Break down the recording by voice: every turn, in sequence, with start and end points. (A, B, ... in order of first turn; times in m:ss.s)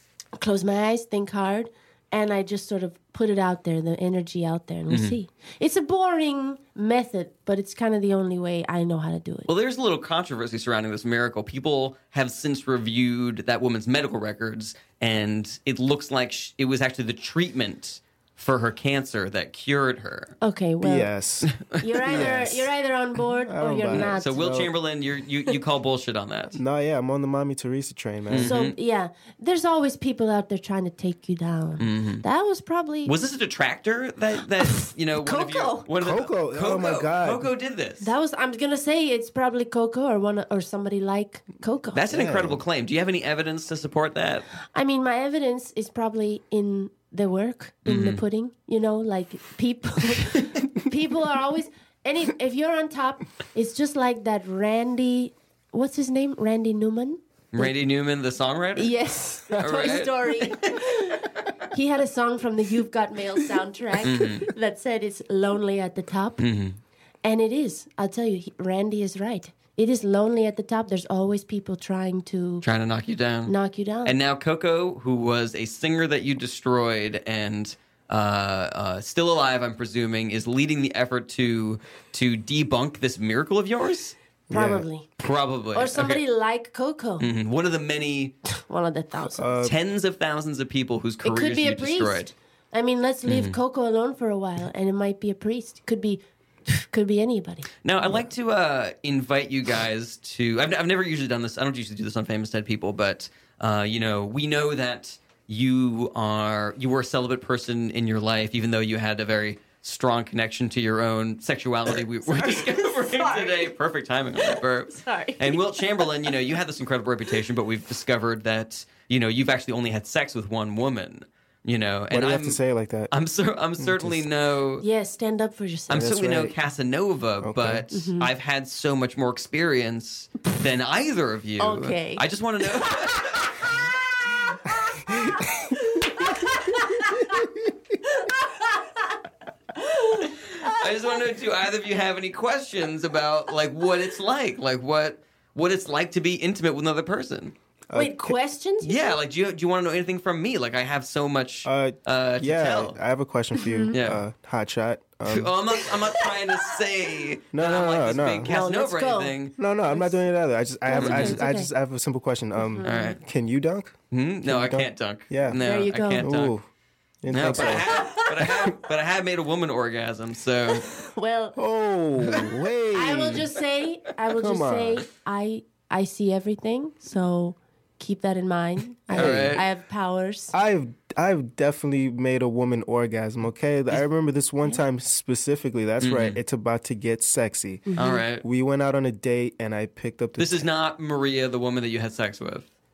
0:00.4-0:09.5 A
0:04.9-0:05.2 B
0:09.5-0:20.3 B
0:20.4-0:21.1 A
0:20.8-0:21.5 C
0:21.5-0:22.3 B
0:21.7-0:24.4 A
0:22.0-0:22.7 C
0:23.4-0:24.7 C
0:23.9-0:26.6 B
0:26.6-0:28.5 C
0:28.3-0:28.8 B
0:28.4-0:33.2 A
0:31.8-0:32.2 B
0:33.0-0:38.1 B
0:34.6-0:35.9 A
0:36.0-0:37.5 C
0:38.0-0:42.1 A
0:41.9-0:44.4 B
0:42.1-0:42.6 C
0:44.7-0:57.7 A
0:47.9-0:48.2 B
0:57.5-0:58.9 B
0:58.8-1:06.4 A
0:59.6-1:00.1 B
1:04.0-1:04.5 B
1:06.4-1:06.8 B
1:07.2-1:12.6 A
1:12.6-1:13.5 B
1:13.5-1:14.2 A
1:14.0-1:24.2 B
1:24.5-1:24.9 C
1:24.5-1:25.1 A
1:25.2-1:26.2 B
1:25.7-1:27.3 A
1:27.2-1:28.3 B
1:28.5-1:29.5 A
1:29.3-1:29.8 C
1:29.6-1:32.3 B
1:31.2-1:37.7 A
1:33.3-1:33.6 B
1:37.8-2:04.8 B
1:52.3-1:53.7 A
1:54.4-1:56.3 A
2:02.1-2:03.1 C
2:03.8-2:04.3 C
2:04.8-2:06.1 A
2:05.9-2:13.8 B
2:05.9-2:06.6 C
2:07.4-2:07.8 C
2:07.9-2:08.3 A
2:11.6-2:17.5 A
2:15.1-2:15.5 C
2:16.0-2:16.5 C
2:17.0-2:17.6 C
2:18.0-2:19.2 A
2:19.8-2:21.2 A
2:20.2-2:27.6 B
2:27.9-2:28.4 C
2:28.0-2:29.2 A
2:28.8-2:33.0 B
2:31.6-2:35.5 C
2:33.6-2:33.9 A
2:33.9-2:34.2 B
2:35.3-2:39.5 B
2:35.9-2:36.6 A
2:37.5-2:38.5 C
2:38.5-2:39.4 A
2:39.6-2:45.6 C
2:39.9-2:40.2 A
2:40.9-2:41.7 A
2:41.0-2:41.4 B
2:42.6-2:43.2 A
2:42.8-2:43.2 B
2:44.1-2:46.5 B
2:45.6-2:46.3 A
2:46.2-2:46.7 C
2:47.2-2:47.9 C
2:47.3-2:50.9 B
2:47.9-2:48.7 A
2:50.8-2:51.6 A
2:51.6-2:53.5 C
2:52.9-3:00.6 A
2:54.4-2:55.0 C
2:59.1-2:59.6 C
2:59.1-2:59.6 B
3:00.5-3:10.6 C
3:06.0-3:06.4 B
3:07.9-3:08.2 A
3:08.0-3:08.4 B
3:10.4-3:12.7 B